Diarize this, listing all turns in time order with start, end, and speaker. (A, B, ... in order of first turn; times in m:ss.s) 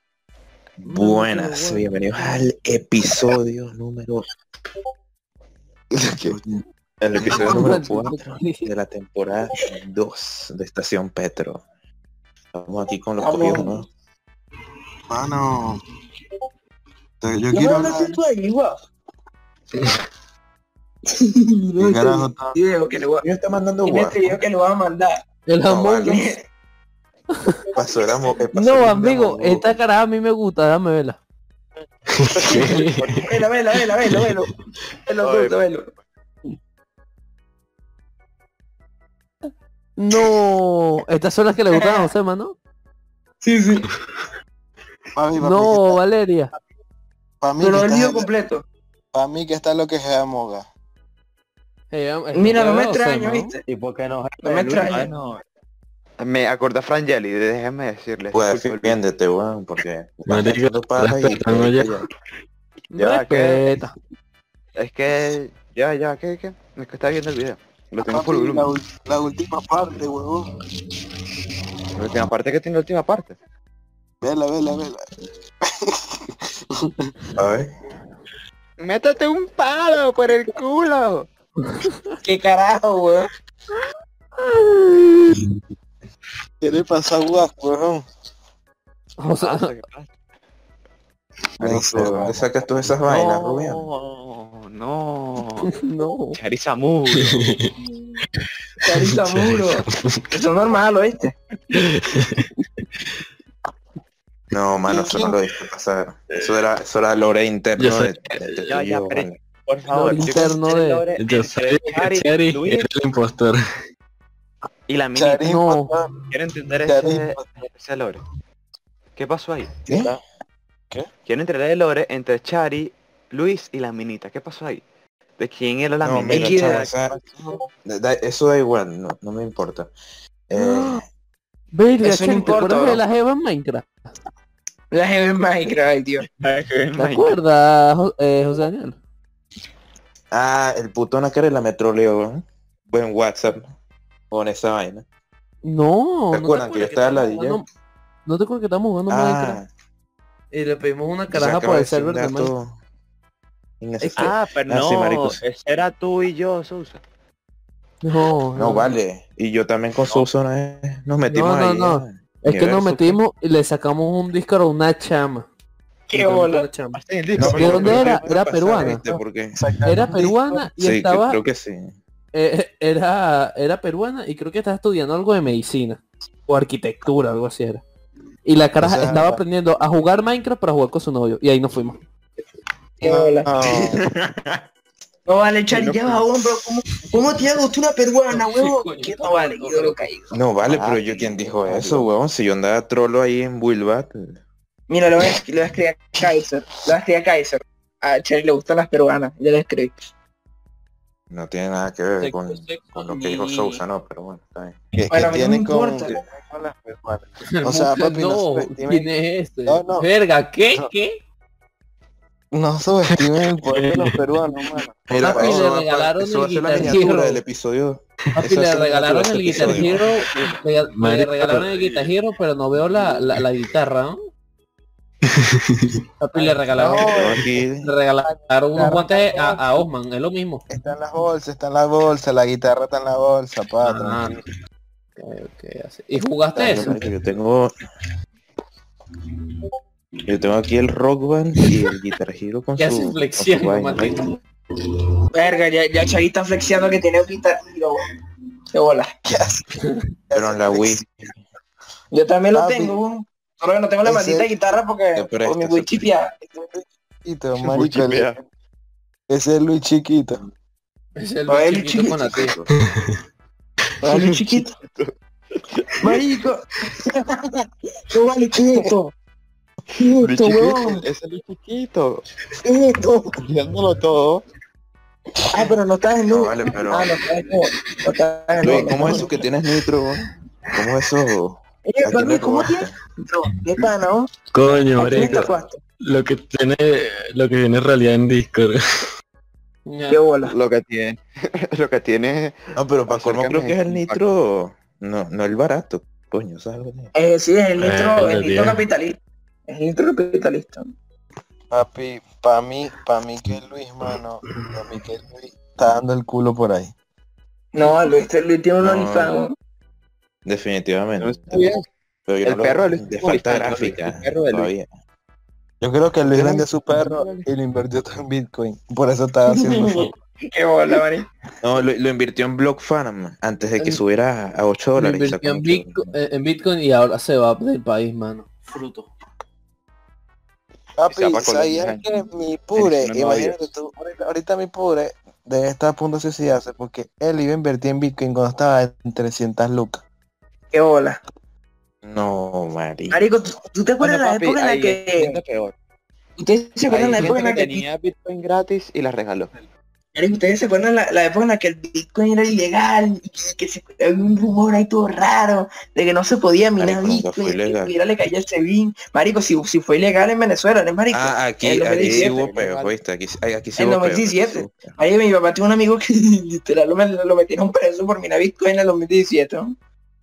0:00.8-0:04.2 A
0:00.8-0:02.5 B
0:06.3-0:06.6 C
0:07.0-0:11.6 A
0:07.2-0:08.7 B
0:12.5-0:13.9 A
0:13.2-0:13.8 D
0:15.1-0:15.8 C
0:17.2-0:18.2 C
0:17.5-0:18.8 D
0:21.1-0:23.2 D
0:21.8-0:22.6 C
0:23.2-0:24.4 A
0:23.8-0:25.2 D
0:25.5-0:26.1 B
0:25.6-0:26.2 A
0:26.0-0:26.4 D
0:27.8-0:29.8 A
0:28.5-0:31.2 B
0:32.1-0:33.3 E
0:32.5-0:32.9 B
0:33.2-0:34.5 D
0:34.1-0:34.5 E
0:35.0-0:35.9 D
0:35.2-0:35.6 F
0:40.0-0:42.6 B
0:41.7-0:42.1 D
0:43.4-0:43.9 D
0:45.2-0:46.0 C
0:45.4-0:46.5 B
0:47.4-0:48.3 C
0:47.6-0:48.6 D
0:49.1-0:50.7 C
0:51.9-0:53.6 B
0:52.3-0:53.6 D
0:53.6-0:55.2 G
0:54.4-0:55.1 D
0:54.8-0:55.4 F
0:56.2-0:59.0 F
0:58.3-1:02.0 A
1:00.3-1:02.0 E
1:02.9-1:03.9 B
1:02.9-1:03.8 F
1:04.8-1:08.7 F
1:08.0-1:10.5 C
1:12.0-1:13.4 F
1:14.2-1:15.0 C
1:15.8-1:16.3 C
1:17.4-1:17.7 A
1:18.8-1:21.3 F
1:22.2-1:23.3 D
1:24.4-1:25.4 B
1:26.6-1:28.0 C
1:29.2-1:29.8 B
1:29.4-1:30.1 F
1:31.6-1:32.4 C
1:31.6-1:33.8 A
1:31.8-1:32.4 F
1:33.0-1:35.7 F
1:35.7-1:36.4 B
1:36.3-1:37.4 F
1:37.1-1:37.7 E
1:38.8-1:40.3 E
1:38.8-1:41.3 D
1:41.7-1:42.5 E
1:44.5-1:49.4 A
1:47.8-1:48.5 E
1:48.7-1:52.9 F
1:49.9-1:51.1 B
1:51.2-1:53.6 E
1:54.9-1:55.6 F
1:55.2-1:56.1 C
1:55.4-1:55.9 B
1:56.3-1:58.2 F
1:56.8-1:57.5 C
1:59.2-1:59.7 F
1:59.9-2:00.2 C
2:01.2-2:04.8 F
2:05.4-2:07.5 F
2:06.0-2:07.2 A
2:06.3-2:06.8 D
2:07.8-2:09.9 A
2:10.5-2:11.0 A
2:10.6-2:11.0 B
2:11.7-2:13.9 B
2:12.0-2:13.0 D
2:14.9-2:16.2 D
2:16.4-2:17.4 F
2:17.0-2:19.0 B
2:20.3-2:23.7 A
2:24.3-2:25.0 A
2:25.6-2:27.6 B
2:26.3-2:27.6 A
2:28.2-2:29.6 B
2:29.1-2:29.7 A
2:30.5-2:32.5 B
2:31.3-2:32.8 A
2:33.8-2:35.4 A
2:34.0-2:34.3 B
2:34.2-2:37.0 F
2:38.0-2:38.9 B
2:38.5-2:43.2 A
2:41.3-2:45.4 B
2:46.1-2:46.7 D
2:46.1-2:47.0 B
2:46.9-2:48.3 F
2:47.4-2:49.6 A
2:47.5-2:49.1 B
2:49.6-2:50.7 C
2:49.8-2:51.4 B
2:50.8-2:52.0 A
2:52.3-2:57.8 B
2:58.4-3:02.0 B
2:58.8-2:59.4 C
3:03.0-3:03.5 D
3:03.0-3:04.0 C
3:03.7-3:04.6 A
3:05.3-3:10.3 D
3:05.7-3:06.3 F
3:08.3-3:10.1 B
3:10.3-3:14.4 A
3:10.7-3:12.1 F
3:14.9-3:19.9 D
3:21.3-3:24.8 A
3:22.2-3:23.8 B
3:24.9-3:29.1 C
3:25.1-3:26.2 D
3:27.5-3:31.2 B
3:29.6-3:30.1 C
3:32.5-3:35.6 C
3:33.1-3:34.2 E
3:35.2-3:37.4 B
3:35.2-3:40.0 A
3:38.4-3:44.2 B
3:40.9-3:41.8 E
3:43.4-3:43.7 E
3:45.2-3:46.0 E
3:46.2-3:50.6 B
3:46.4-3:47.4 C
3:46.9-3:47.9 A
3:48.2-3:49.8 C
3:50.7-3:54.4 C
3:53.8-3:54.4 B
3:55.2-3:57.0 B
3:56.6-3:57.7 A
4:00.2-4:04.3 A
4:02.8-4:04.4 B
4:05.3-4:08.1 D
4:08.7-4:09.1 D
4:09.2-4:09.7 C
4:10.3-4:11.1 C
4:10.3-4:11.1 A
4:12.1-4:16.3 D
4:12.5-4:13.0 C
4:14.0-4:14.5 C
4:15.2-4:16.0 A
4:16.4-4:18.4 C
4:17.6-4:18.3 F
4:19.3-4:20.4 C
4:21.2-4:22.6 B
4:21.5-4:22.5 D
4:24.0-4:24.7 D
4:24.1-4:26.1 F
4:26.0-4:29.1 D
4:30.0-4:31.0 D
4:30.0-4:32.2 F
4:32.6-4:33.4 D
4:33.4-4:34.4 F
4:35.5-4:39.2 D
4:36.3-4:37.1 A
4:38.6-4:42.9 A
4:41.8-4:44.3 D
4:44.5-4:48.8 E
4:45.0-4:45.8 D
4:49.8-4:50.2 B
4:50.1-4:50.5 D
4:50.5-4:54.2 F
4:52.8-4:57.1 A
4:57.1-5:00.9 D
4:57.8-4:58.8 E
5:01.7-5:06.9 C
5:07.7-5:09.5 D
5:08.8-5:09.3 A
5:10.4-5:11.7 A
5:11.2-5:11.8 F
5:12.3-5:14.9 A
5:12.4-5:14.7 F
5:15.8-5:20.1 C
5:16.2-5:17.4 F
5:19.5-5:21.3 D
5:21.6-5:26.1 A
5:25.0-5:29.1 B
5:31.0-5:40.0 C
5:31.1-5:32.0 F
5:32.7-5:33.6 F
5:40.7-5:41.2 D
5:42.0-5:43.2 A
5:43.1-5:45.4 D
5:44.0-5:45.7 F
5:46.4-5:47.8 D
5:46.9-5:49.5 F
5:50.1-6:02.5 D
5:56.8-5:57.9 A
6:01.1-6:04.9 A
6:02.1-6:02.7 F
6:02.3-6:02.9 G
6:03.8-6:09.7 D